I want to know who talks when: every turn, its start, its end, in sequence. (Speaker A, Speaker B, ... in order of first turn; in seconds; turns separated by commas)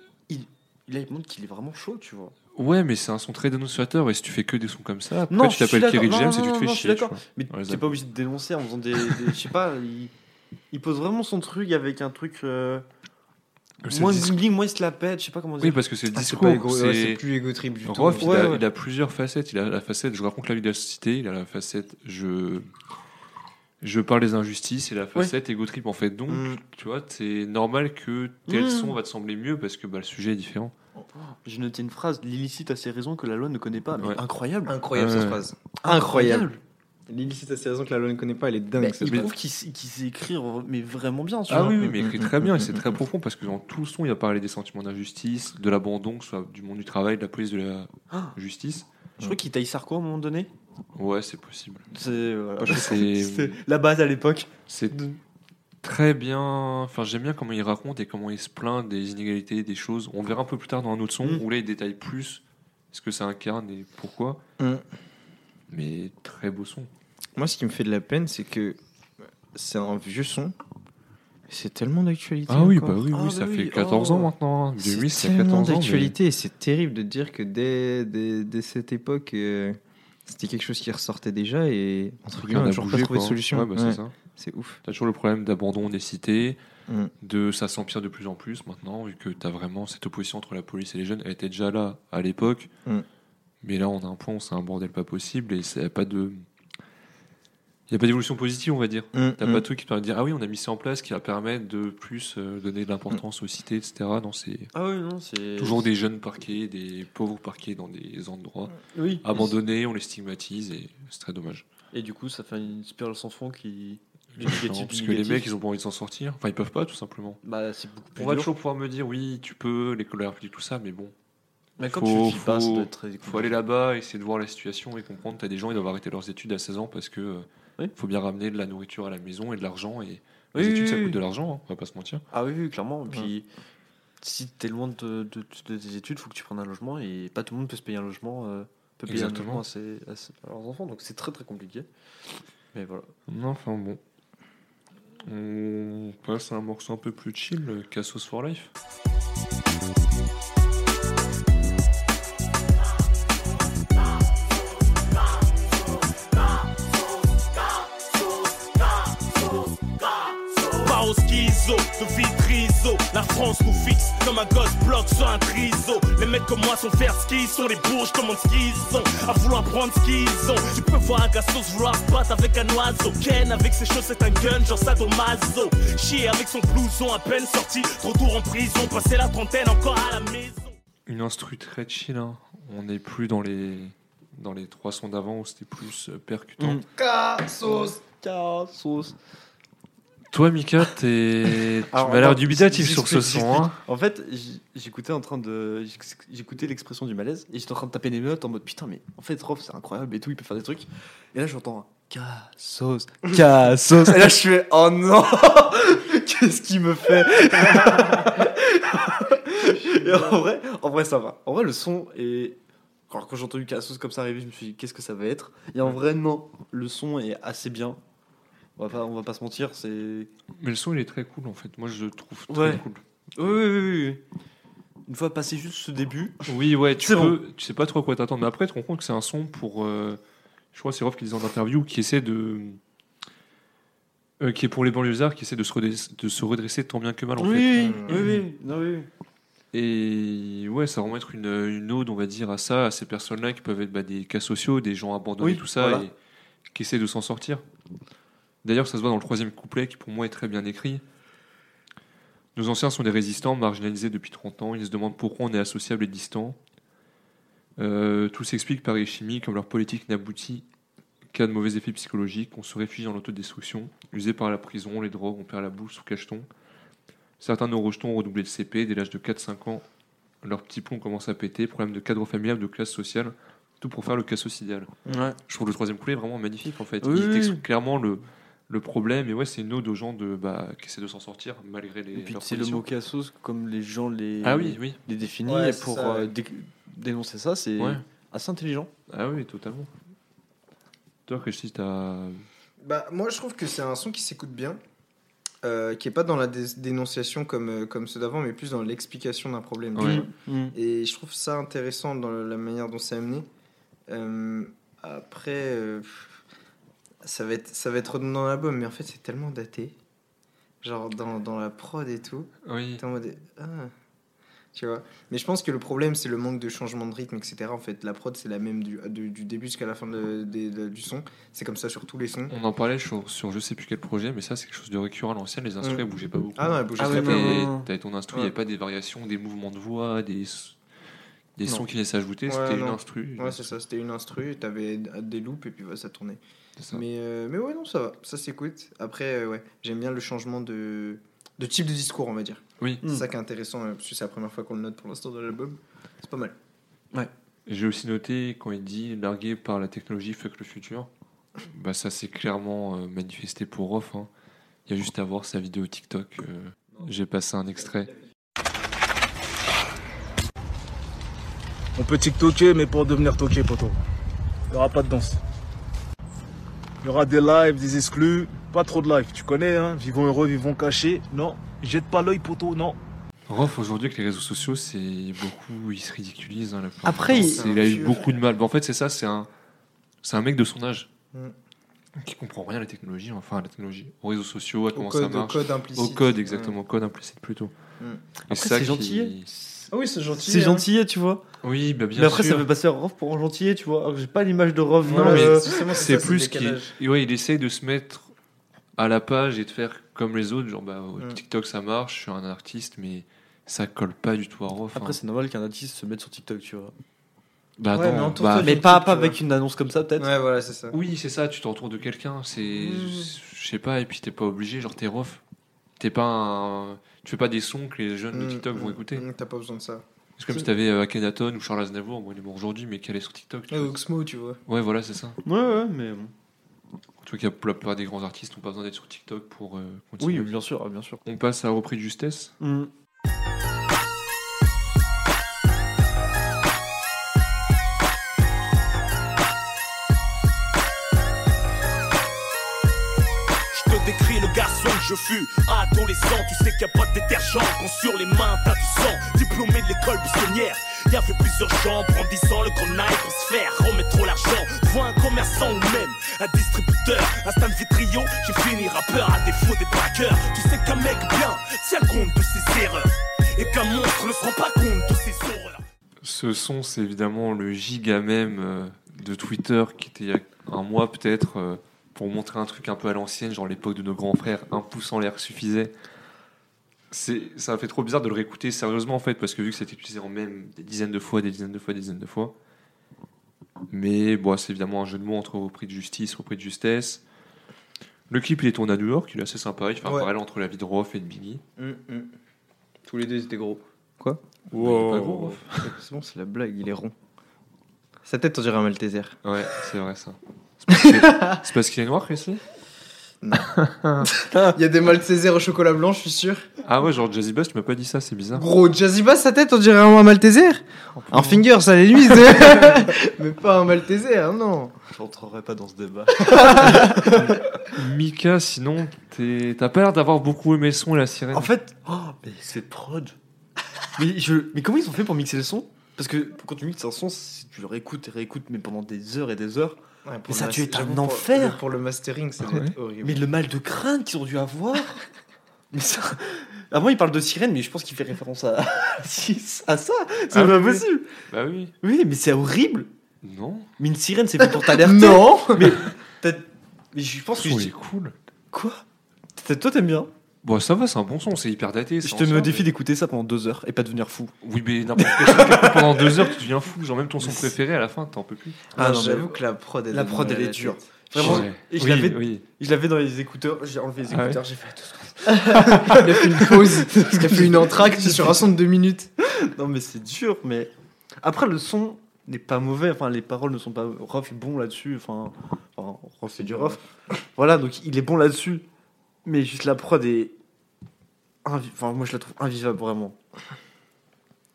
Speaker A: 0.3-2.3, Speaker B: 2.5-8.0, Speaker A: 5.3-10.1, Speaker A: 10.7-12.8, Speaker B: 13.8-14.4, Speaker A: 13.9-15.8, Speaker B: 15.6-17.2, Speaker C: 16.1-18.6, Speaker B: 17.8-22.7, Speaker A: 18.2-18.6, Speaker B: 23.8-30.7, Speaker C: 26.3-26.6, Speaker A: 28.5-28.9, Speaker A: 31.2-34.8, Speaker C: 34.6-36.5, Speaker B: 34.9-35.4, Speaker A: 35.8-36.6, Speaker C: 37.1-39.3, Speaker A: 38.8-42.0, Speaker B: 39.0-39.3, Speaker B: 41.5-48.9, Speaker C: 42.0-43.0, Speaker A: 48.1-48.4, Speaker A: 49.2-50.5, Speaker B: 50.9-51.9, Speaker A: 51.9-55.2, Speaker B: 52.6-53.6, Speaker B: 54.7-55.0, Speaker B: 55.8-64.4, Speaker C: 64.6-64.8, Speaker B: 65.7-66.9, Speaker C: 67.3-68.8, Speaker C: 69.5-70.5, Speaker C: 71.5-73.0, Speaker B: 72.5-76.2, Speaker A: 73.1-74.3, Speaker C: 74.8-84.8, Speaker B: 82.4-84.1, Speaker B: 84.8-86.6, Speaker C: 86.9-87.1, Speaker B: 87.2-92.7, Speaker B: 93.6-96.4, Speaker B: 97.9-104.7, Speaker C: 99.1-99.6, Speaker A: 104.7-105.9, Speaker B: 105.6-111.6, Speaker A: 108.9-109.5, Speaker A: 111.9-115.5, Speaker B: 114.3-117.4, Speaker A: 117.4-118.5, Speaker B: 118.2-121.1, Speaker A: 121.8-123.5, Speaker B: 121.8-132.2, Speaker A: 130.5-131.2, Speaker A: 132.3-133.5, Speaker A: 134.2-141.9, Speaker B: 139.1-139.6, Speaker A: 142.7-143.1, Speaker B: 143.3-144.0, Speaker B: 145.2-148.7, Speaker D: 158.9-180.7, Speaker B: 181.1-186.8, Speaker A: 186.6-186.8, Speaker C: 186.9-188.0, Speaker A: 187.6-189.1, Speaker B: 190.3-193.8, Speaker A: 191.9-212.6, Speaker C: 209.8-210.3, Speaker A: 213.1-218.0, Speaker A: 218.8-220.3, Speaker B: 220.6-223.5, Speaker A: 222.5-222.8, Speaker A: 223.3-224.2, Speaker A: 225.1-227.4, Speaker B: 226.4-230.2, Speaker B: 230.7-232.8, Speaker B: 234.4-238.4, Speaker A: 237.4-239.1, Speaker C: 237.8-238.2, Speaker B: 239.7-246.1, Speaker A: 245.4-246.0, Speaker B: 246.7-247.6, Speaker B: 248.6-251.0, Speaker B: 252.6-256.6, Speaker B: 257.8-260.6, Speaker B: 261.3-266.4, Speaker B: 267.4-269.8, Speaker B: 270.4-274.9, Speaker A: 275.1-275.4, Speaker B: 275.5-282.9, Speaker A: 277.0-277.6, Speaker A: 282.1-288.9, Speaker B: 284.4-285.0, Speaker C: 285.4-286.3, Speaker B: 289.1-289.9, Speaker B: 291.3-292.4, Speaker C: 292.8-294.8, Speaker C: 295.6-303.5, Speaker B: 299.9-300.3, Speaker A: 300.0-300.7, Speaker C: 304.1-306.4, Speaker C: 307.2-309.9, Speaker C: 310.8-313.9, Speaker B: 312.6-313.0, Speaker C: 314.7-322.5, Speaker B: 322.5-330.8, Speaker C: 326.6-327.7, Speaker A: 327.0-327.9, Speaker B: 331.6-333.7, Speaker C: 332.5-336.4, Speaker C: 336.9-346.5, Speaker B: 347.6-351.1, Speaker B: 351.6-354.3, Speaker B: 354.9-358.1, Speaker E: 362.0-364.0, Speaker E: 364.7-365.4, Speaker E: 367.0-373.0, Speaker B: 373.5-379.5, Speaker A: 377.0-378.3, Speaker B: 380.2-381.1, Speaker B: 382.2-387.7, Speaker C: 384.9-386.8, Speaker B: 388.5-389.5, Speaker A: 388.5-391.4, Speaker C: 389.9-390.9, Speaker B: 391.6-392.7, Speaker A: 392.1-395.9, Speaker C: 395.0-396.9, Speaker B: 395.1-398.3, Speaker B: 399.0-405.2, Speaker A: 404.9-406.9, Speaker B: 407.8-408.8, Speaker C: 407.9-409.4, Speaker A: 408.6-410.3, Speaker C: 410.2-411.0, Speaker B: 410.9-415.4, Speaker A: 412.7-413.3, Speaker B: 416.0-419.2, Speaker C: 418.3-420.0, Speaker B: 420.4-424.0, Speaker C: 423.7-424.6, Speaker B: 424.7-425.4, Speaker A: 425.4-426.3, Speaker B: 427.2-430.5, Speaker A: 430.2-431.2, Speaker B: 431.2-432.5, Speaker A: 432.6-432.9, Speaker D: 443.7-465.8, Speaker B: 466.2-475.9, Speaker B: 477.1-482.5, Speaker B: 483.9-487.2, Speaker B: 488.3-491.6, Speaker C: 490.0-490.3, Speaker C: 491.8-492.3, Speaker C: 493.0-497.1, Speaker B: 494.7-495.9, Speaker C: 498.2-499.4, Speaker B: 499.4-502.6, Speaker C: 500.9-501.6, Speaker C: 503.4-503.7, Speaker B: 503.6-504.3, Speaker A: 504.5-504.8, Speaker C: 504.5-506.7, Speaker B: 506.8-508.6, Speaker C: 508.5-514.9, Speaker B: 511.2-511.6, Speaker A: 515.1-517.5, Speaker C: 516.4-517.5, Speaker B: 516.9-521.7, Speaker A: 521.5-523.4, Speaker A: 524.1-531.8, Speaker C: 530.2-533.5, Speaker B: 532.6-532.9, Speaker A: 533.2-535.2, Speaker A: 535.9-541.3, Speaker B: 540.5-541.9, Speaker A: 542.0-543.1, Speaker B: 543.4-543.9, Speaker A: 544.0-547.9, Speaker C: 544.6-546.0, Speaker B: 547.6-548.3, Speaker A: 548.7-549.0, Speaker A: 549.5-550.3, Speaker B: 550.6-552.9, Speaker A: 552.2-554.5, Speaker B: 554.6-558.9, Speaker A: 555.2-556.4, Speaker A: 557.4-557.7, Speaker C: 559.0-561.6, Speaker A: 559.0-568.6, Speaker B: 561.4-562.6, Speaker B: 564.3-564.6, Speaker C: 565.5-569.3, Speaker B: 565.9-566.2, Speaker A: 569.4-578.8, Speaker A: 579.4-580.5, Speaker A: 581.6-583.4